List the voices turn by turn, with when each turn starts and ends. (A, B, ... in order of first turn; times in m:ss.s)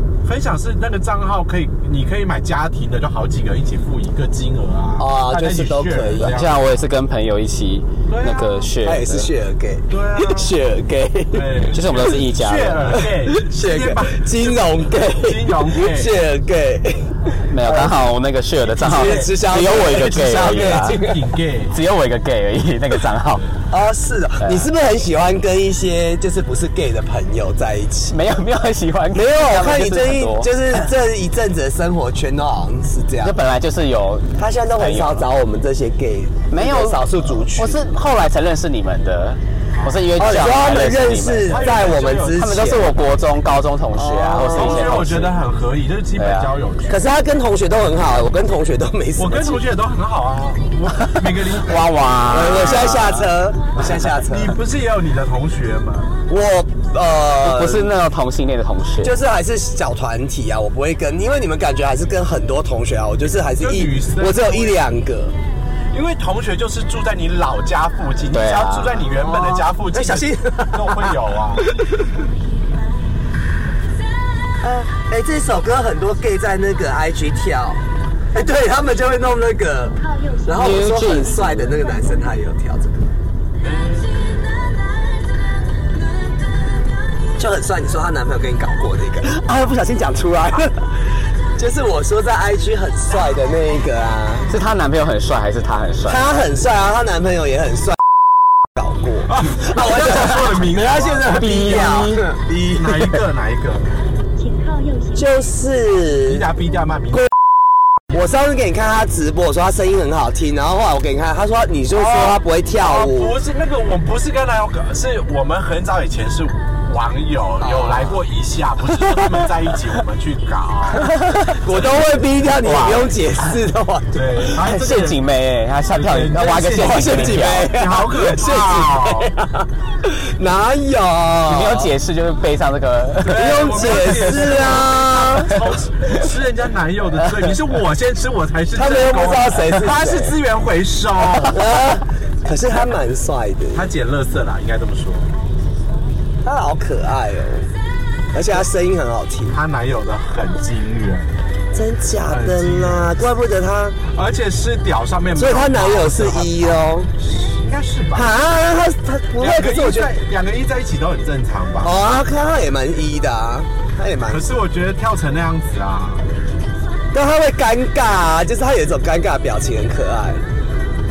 0:00.2-0:06.8 A
0:05.0-0:06.4 B
0:06.2-0:09.3 C
0:08.1-0:08.6 A
0:08.8-0:11.6 B
0:09.9-0:10.5 A
0:11.3-0:16.1 A
0:11.7-0:13.0 C
0:13.0-0:18.0 B
0:17.5-0:21.0 C
0:18.7-0:21.4 B
0:18.8-0:21.8 A
0:21.7-0:23.5 C
0:23.7-0:28.2 B
0:28.1-0:30.6 C
0:29.1-0:33.4 B
0:33.2-0:35.3 C
0:34.4-0:37.8 B
0:36.5-0:45.4 C
0:39.8-0:40.1 A
0:40.2-0:42.9 B
0:41.5-0:42.5 A
0:44.0-0:45.2 B
0:44.4-0:47.0 A
0:46.2-0:46.5 C
0:46.9-0:49.6 B
0:49.2-0:51.9 A
0:51.0-0:53.3 C
0:52.3-0:54.6 B
0:54.3-0:56.1 A
0:56.3-0:57.9 B
0:57.4-0:59.1 C
0:59.0-1:05.3 B
1:03.6-1:04.8 A
1:05.9-1:11.7 A
1:08.3-1:09.0 C
1:09.1-1:12.1 B
1:14.6-1:23.1 B
1:20.0-1:22.3 D
1:20.5-1:21.7 C
1:23.6-1:24.1 A
1:27.4-1:34.5 B
1:34.5-1:36.2 C
1:36.0-1:38.0 B
1:38.7-1:43.2 B
1:39.3-1:42.1 A
1:41.3-1:42.2 C
1:42.7-1:43.9 A
1:44.4-1:45.3 D
1:45.1-1:46.5 B
1:46.3-1:47.3 A
1:48.1-1:53.4 B
1:51.9-2:01.1 A
1:57.6-1:58.2 B
2:01.5-2:04.6 B
2:02.6-2:03.1 C
2:04.1-2:05.2 A
2:04.6-2:07.8 C
2:05.9-2:09.3 A
2:06.3-2:11.9 B
2:11.4-2:14.6 C
2:13.2-2:21.6 A
2:13.2-2:15.7 B
2:18.7-2:20.4 B
2:21.2-2:23.9 B
2:23.7-2:25.3 A
2:26.4-2:27.7 B
2:28.3-2:29.6 B
2:29.5-2:31.3 A
2:31.7-2:34.0 B
2:32.3-2:33.1 A
2:34.1-2:38.3 A
2:35.3-2:37.1 B
2:38.1-2:40.1 B
2:39.4-2:41.9 A
2:41.8-2:44.5 B
2:44.3-2:46.2 A
2:47.1-2:50.4 B